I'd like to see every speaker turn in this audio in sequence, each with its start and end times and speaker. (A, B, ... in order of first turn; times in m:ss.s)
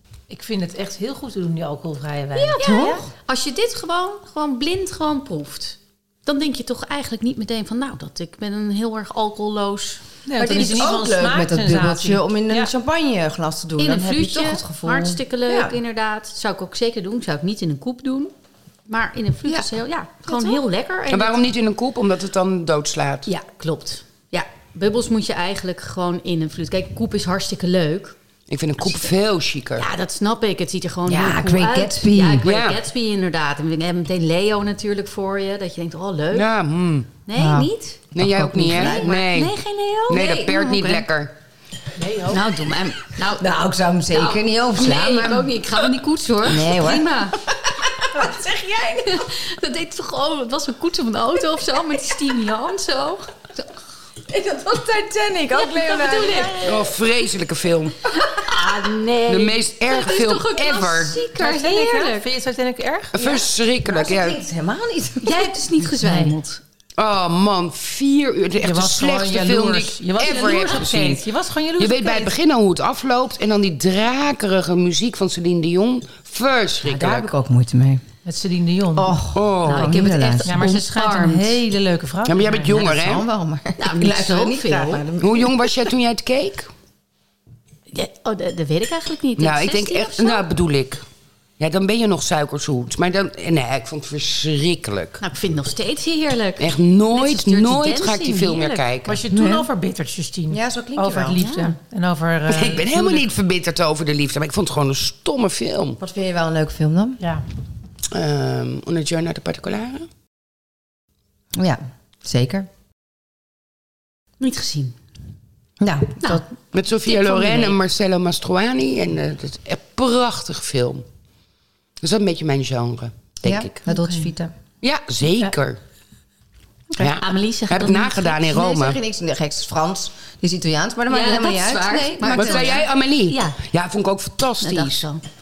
0:00.3-0:03.0 A
0:02.3-0:10.0 B
0:02.6-0:03.0 C
0:10.3-0:12.7 A
0:10.3-0:15.8 C
0:13.8-0:18.3 B
0:18.9-0:21.4 B
0:20.3-0:20.6 C
0:21.1-0:23.3 D
0:23.3-0:28.1 B
0:28.5-0:29.9 D
0:28.8-0:29.1 B
0:29.8-0:36.4 B
0:31.0-0:32.4 C
0:32.4-0:32.8 D
0:36.3-0:37.1 D
0:37.3-0:38.0 B
0:37.3-0:39.1 C
0:38.1-0:41.3 D
0:38.7-0:41.1 B
0:42.0-0:42.4 D
0:42.2-0:43.5 B
0:43.4-0:45.8 C
0:44.1-0:47.4 B
0:46.4-0:49.3 C
0:48.0-0:48.3 B
0:48.9-0:53.5 B
0:54.3-0:56.8 C
0:55.5-0:56.8 B
0:56.6-0:58.0 D
0:58.2-0:58.7 C
0:58.2-1:02.2 B
0:59.2-1:01.2 D
1:01.4-1:03.4 A
1:03.1-1:04.4 D
1:03.2-1:06.4 C
1:05.2-1:06.6 B
1:07.0-1:11.2 D
1:08.6-1:12.3 A
1:11.8-1:17.3 D
1:16.8-1:18.0 C
1:18.2-1:19.2 A
1:18.9-1:20.7 C
1:19.3-1:20.0 D
1:19.6-1:21.6 B
1:20.4-1:22.7 A
1:22.2-1:23.2 D
1:22.6-1:25.9 C
1:23.8-1:25.1 B
1:25.2-1:26.7 D
1:27.9-1:30.4 B
1:29.4-1:31.0 D
1:31.6-1:35.2 D
1:35.2-1:38.8 B
1:36.6-1:39.2 D
1:39.0-1:43.3 A
1:39.3-1:39.7 C
1:40.5-1:41.4 C
1:41.4-1:41.8 B
1:42.5-1:46.0 D
1:46.0-1:47.2 C
1:48.1-1:50.1 D
1:51.6-1:52.7 C
1:54.4-1:55.0 B
1:55.8-1:56.4 C
1:56.7-2:01.0 D
1:57.0-1:57.8 B
2:02.0-2:03.8 D
2:03.4-2:04.5 C
2:04.8-2:05.8 D
2:06.9-2:08.5 B
2:07.0-2:09.0 D
2:08.5-2:12.8 C
2:11.1-2:13.6 B
2:12.3-2:15.1 D
2:14.6-2:15.2 B